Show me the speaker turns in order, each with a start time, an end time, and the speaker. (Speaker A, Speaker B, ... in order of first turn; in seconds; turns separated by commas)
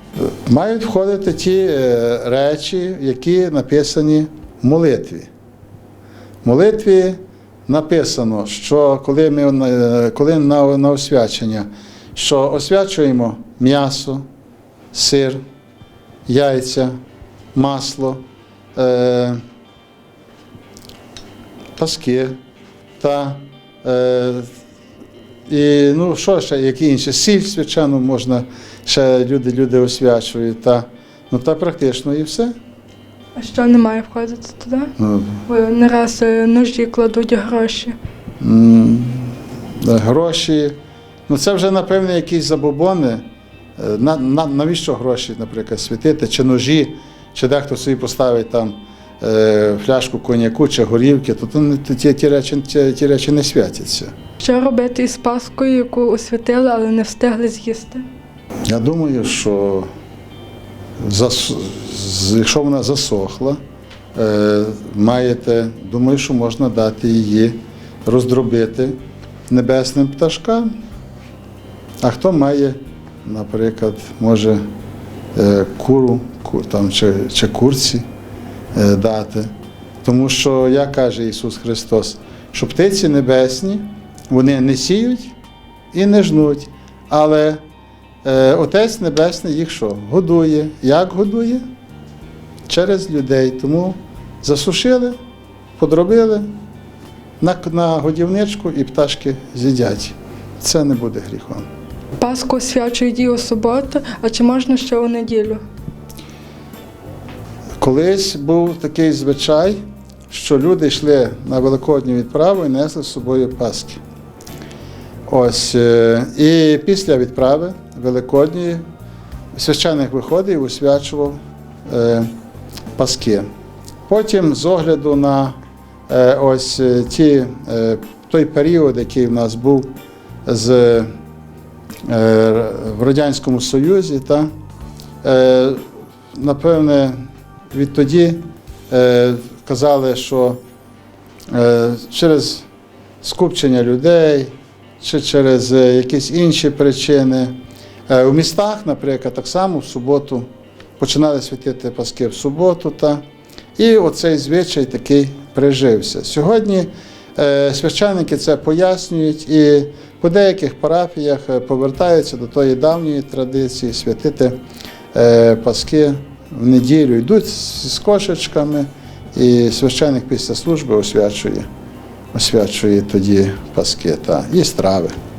Speaker A: 0.2-5.3, Speaker A: 6.4-14.2, Speaker A: 14.9-15.4, Speaker A: 16.3-16.9, Speaker A: 17.6-18.2, Speaker A: 18.8-19.4, Speaker A: 21.8-22.4, Speaker A: 23.0-24.5, Speaker A: 25.5-32.5, Speaker B: 33.4-34.9, Speaker A: 35.0-35.4, Speaker B: 35.5-38.0, Speaker A: 38.4-40.8, Speaker A: 41.3-43.2, Speaker A: 43.8-54.1, Speaker B: 54.4-58.0, Speaker A: 58.7-59.9, Speaker A: 61.0-63.6, Speaker A: 64.2-69.0, Speaker A: 69.5-70.7, Speaker A: 72.0-74.6, Speaker A: 75.3-78.0, Speaker A: 78.7-79.5, Speaker A: 80.0-85.3, Speaker A: 85.9-87.6, Speaker A: 88.2-91.6, Speaker A: 92.7-95.2, Speaker A: 95.8-96.5, Speaker A: 97.4-101.7, Speaker B: 102.2-105.6, Speaker A: 107.8-114.0, Speaker A: 115.3-118.8, Speaker A: 119.5-122.3, Speaker A: 123.0-123.5, Speaker A: 124.1-125.6, Speaker A: 126.1-129.9, Speaker A: 130.5-131.1, Speaker A: 132.1-134.5, Speaker A: 135.2-135.8, Speaker A: 136.3-137.2, Speaker A: 137.7-140.6, Speaker A: 141.5-142.7, Speaker A: 143.2-147.5, Speaker A: 148.1-150.5, Speaker A: 151.0-153.2, Speaker A: 153.8-164.6, Speaker A: 165.1-171.7, Speaker A: 172.3-175.1